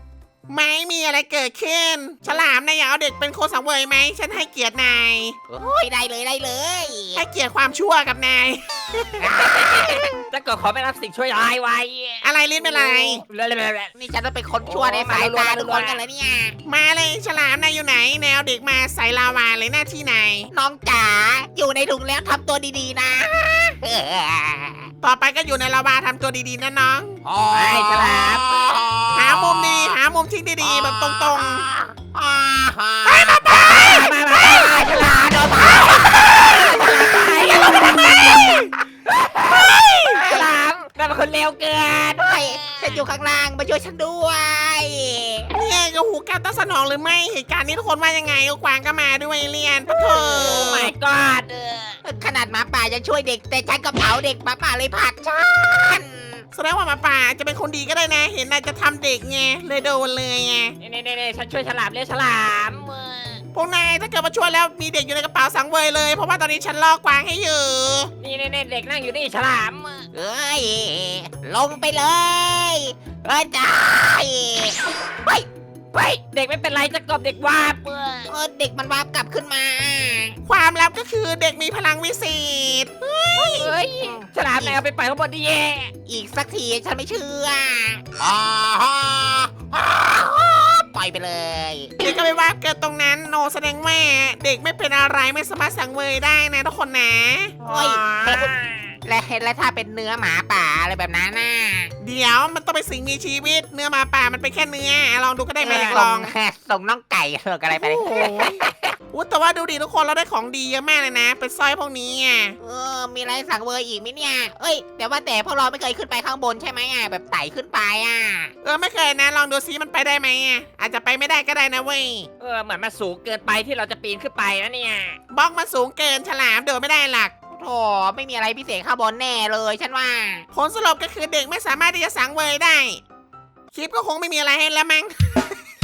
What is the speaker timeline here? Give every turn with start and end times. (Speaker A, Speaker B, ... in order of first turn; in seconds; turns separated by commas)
Speaker A: 0.5-5.4, Speaker B: 5.5-7.2, Speaker A: 7.2-9.3, Speaker B: 9.2-10.2, Speaker C: 9.4-13.9, Speaker A: 12.2-13.2, Speaker B: 13.9-16.6, Speaker C: 14.6-16.0, Speaker A: 16.7-20.5, Speaker B: 20.5-24.9, Speaker A: 25.0-27.2, Speaker B: 27.2-30.0, Speaker C: 27.5-28.5, Speaker A: 29.1-31.7, Speaker B: 30.6-38.6, Speaker A: 33.0-34.1, Speaker C: 33.6-43.1, Speaker A: 38.0-38.5, Speaker B: 40.1-40.5, Speaker B: 42.2-45.5, Speaker A: 45.5-50.9, Speaker B: 49.9-50.8, Speaker C: 50.3-52.0, Speaker B: 52.0-56.5, Speaker A: 56.5-60.8, Speaker C: 60.8-63.4, Speaker A: 63.5-68.1, Speaker C: 68.2-70.1, Speaker B: 70.1-75.5, Speaker C: 75.9-78.3, Speaker B: 78.3-80.4, Speaker A: 80.5-83.7, Speaker C: 83.4-85.9, Speaker B: 83.4-84.8, Speaker B: 86.1-91.9, Speaker A: 92.0-97.6, Speaker C: 97.6-99.0, Speaker B: 97.7-98.5, Speaker B: 99.0-101.9, Speaker A: 102.0-106.3, Speaker B: 105.6-108.9, Speaker C: 105.7-106.0, Speaker A: 107.7-108.6, Speaker A: 109.1-112.6, Speaker B: 112.6-118.5, Speaker A: 118.6-122.3, Speaker C: 122.4-125.2, Speaker A: 125.3-127.3, Speaker B: 127.5-130.5, Speaker A: 130.5-133.0, Speaker A: 133.7-135.6